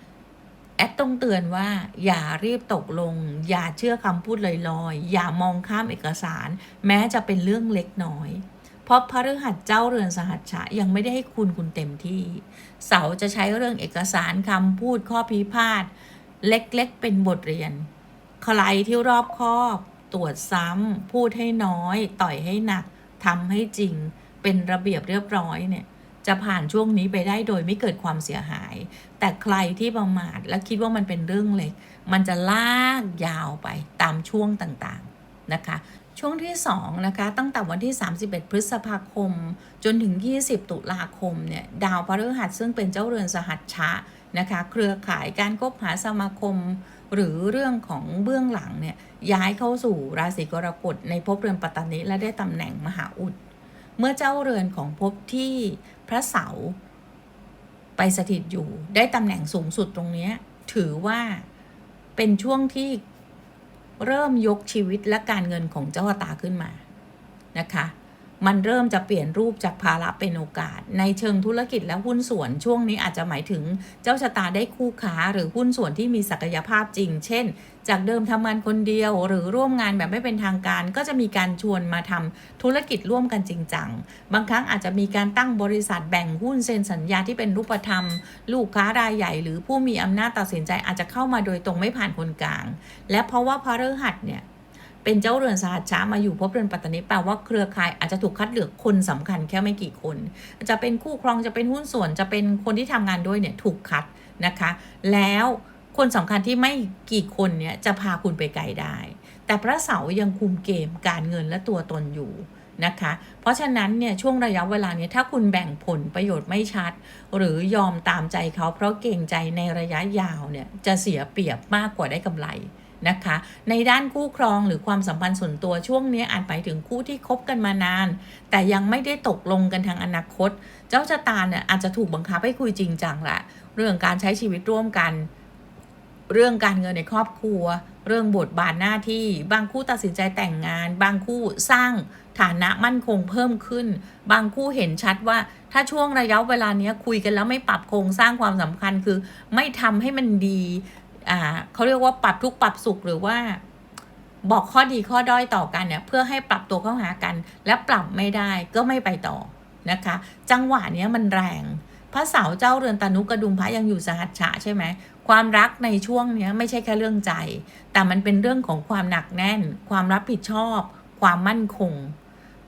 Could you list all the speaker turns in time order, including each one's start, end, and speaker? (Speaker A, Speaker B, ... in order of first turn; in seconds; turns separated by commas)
Speaker A: 0.8-17.9, Speaker A: 18.4-53.4, Speaker A: 54.0-56.8, Speaker A: 58.0-61.5, Speaker A: 62.2-63.0, Speaker A: 64.0-66.8, Speaker A: 67.5-94.5, Speaker A: 95.0-135.3, Speaker A: 136.3-153.6, Speaker A: 154.4-172.2